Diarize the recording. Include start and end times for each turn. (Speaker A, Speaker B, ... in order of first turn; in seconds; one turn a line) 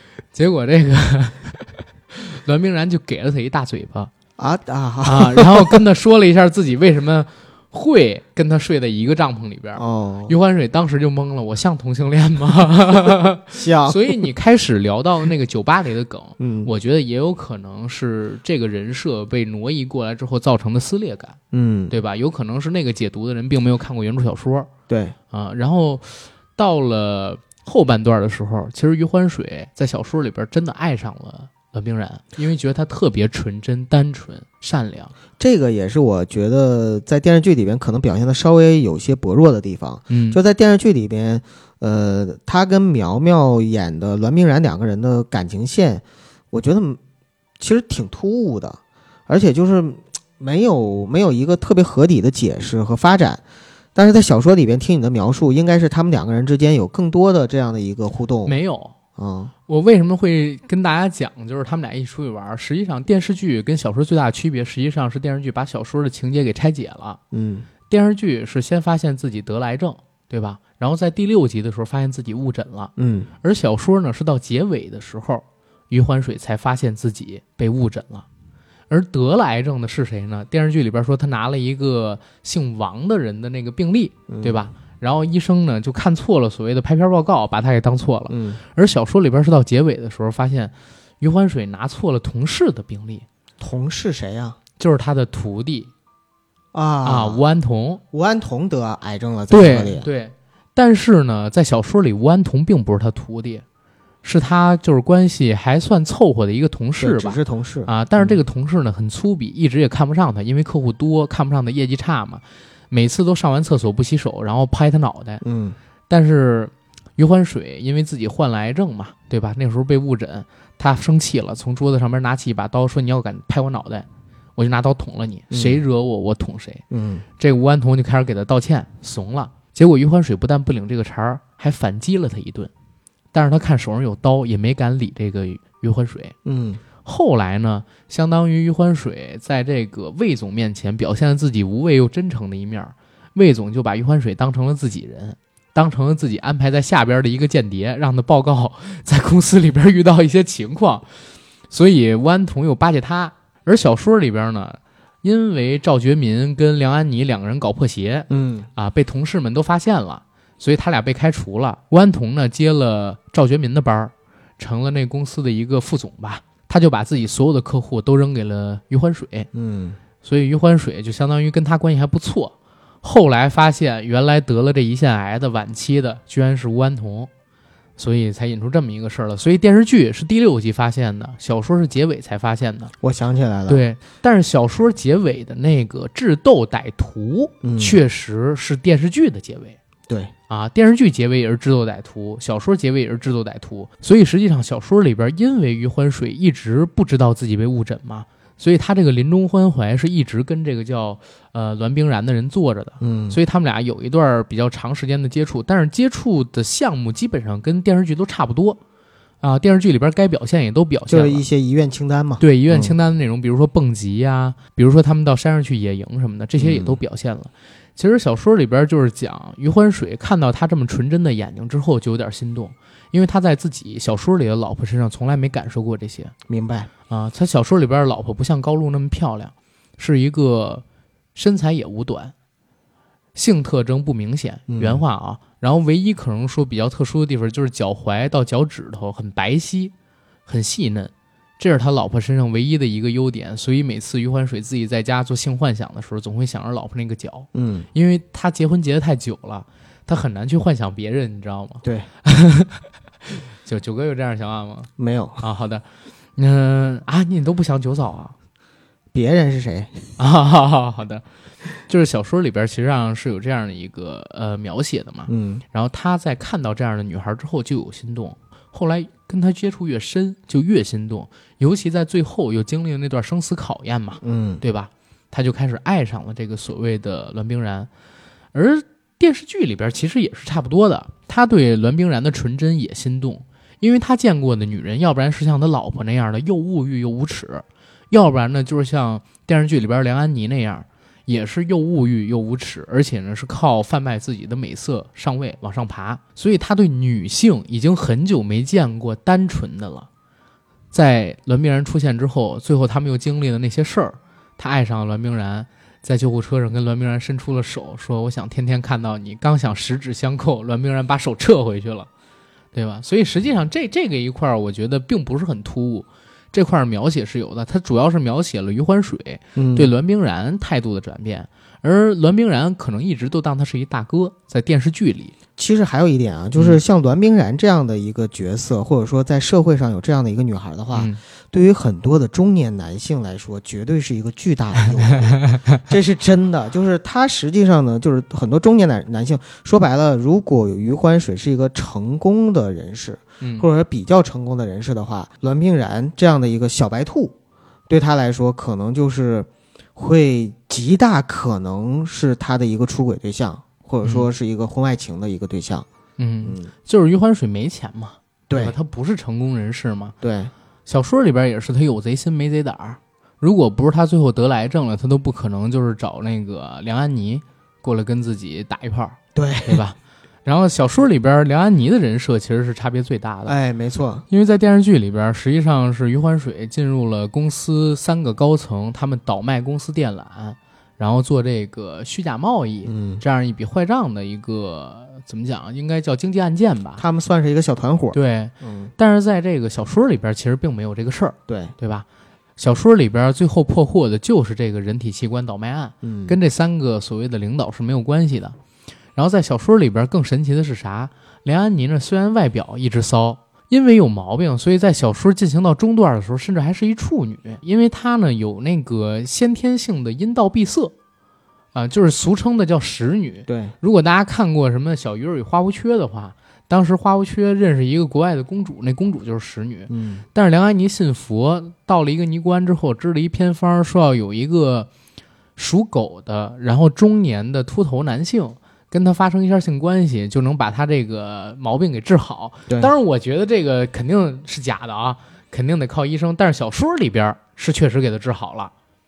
Speaker A: 0.3-4.1
Speaker B: 4.4-5.8
Speaker A: 5.0-21.4
Speaker B: 9.8-10.3
Speaker B: 13.5-14.2
Speaker B: 16.4-16.7
Speaker B: 21.5-21.9
Speaker A: 21.9-24.7
Speaker B: 24.9-25.1
Speaker A: 25.3-35.1
Speaker B: 35.4-47.0
Speaker A: 40.1-40.4
Speaker B: 47.6-53.4
Speaker B: 53.9-58.5
Speaker A: 58.5-58.9
Speaker B: 59.2-59.5
Speaker A: 59.7-67.2
Speaker B: 67.3-67.7
Speaker A: 67.9-78.2
Speaker B: 73.0-73.3
Speaker A: 78.9-93.2
Speaker B: 84.3-84.7
Speaker B: 88.3-88.6
Speaker B: 93.6-94.6
Speaker A: 94.8-95.9
Speaker B: 96.7-97.4
Speaker A: 97.0-98.0
Speaker B: 98.1-100.1
Speaker A: 99.5-103.6
Speaker A: 104.2-115.4
Speaker B: 107.0-108.4
Speaker B: 115.4-115.8
Speaker A: 116.1-124.0
Speaker A: 124.6-126.8
Speaker B: 125.5-125.8
Speaker B: 126.9-127.2
Speaker A: 127.4-132.7
Speaker A: 133.3-136.3
Speaker B: 136.4-136.8
Speaker A: 137.0-151.1
Speaker A: 151.7-169.5
Speaker B: 158.3-158.7
Speaker B: 169.5-170.0
Speaker A: 170.2-177.3
Speaker A: 178.0-182.9
Speaker B: 183.0-183.8
Speaker A: 183.7-189.8
Speaker B: 187.6-187.9
Speaker A: 190.5-208.8
Speaker B: 203.0-203.4
Speaker A: 209.4-211.4
Speaker B: 211.1-212.9
Speaker A: 212.4-226.3
Speaker B: 216.6-217.0
Speaker B: 226.5-226.9
Speaker A: 227.1-230.8
Speaker A: 231.3-232.3
Speaker A: 233.3-239.9
Speaker B: 234.7-235.0
Speaker A: 240.5-255.8
Speaker B: 247.5-247.9
Speaker B: 255.0-255.4
Speaker A: 256.4-258.3
Speaker B: 259.1-260.1
Speaker A: 260.2-261.2
Speaker A: 261.8-277.9
Speaker B: 265.3-265.6
Speaker B: 274.2-274.6
Speaker A: 278.5-300.1
Speaker A: 300.9-312.1
Speaker A: 312.7-325.3
Speaker B: 319.6-319.9
Speaker B: 325.6-347.3
Speaker A: 326.5-326.8
Speaker A: 330.9-331.2
Speaker A: 335.1-335.8
Speaker A: 343.4-343.7
Speaker B: 347.9-355.9
Speaker A: 356.2-360.1
Speaker B: 356.4-356.7
Speaker B: 360.2-360.5
Speaker A: 360.9-373.5
Speaker B: 369.3-369.8
Speaker B: 373.4-374.2
Speaker A: 374.3-387.0
Speaker B: 382.9-383.2
Speaker B: 387.0-388.9
Speaker A: 388.1-392.1
Speaker B: 391.5-391.7
Speaker A: 392.6-398.6
Speaker B: 396.0-396.4
Speaker A: 399.1-410.9
Speaker A: 411.7-424.9
Speaker B: 413.5-413.7
Speaker B: 419.9-420.2
Speaker A: 425.6-438.7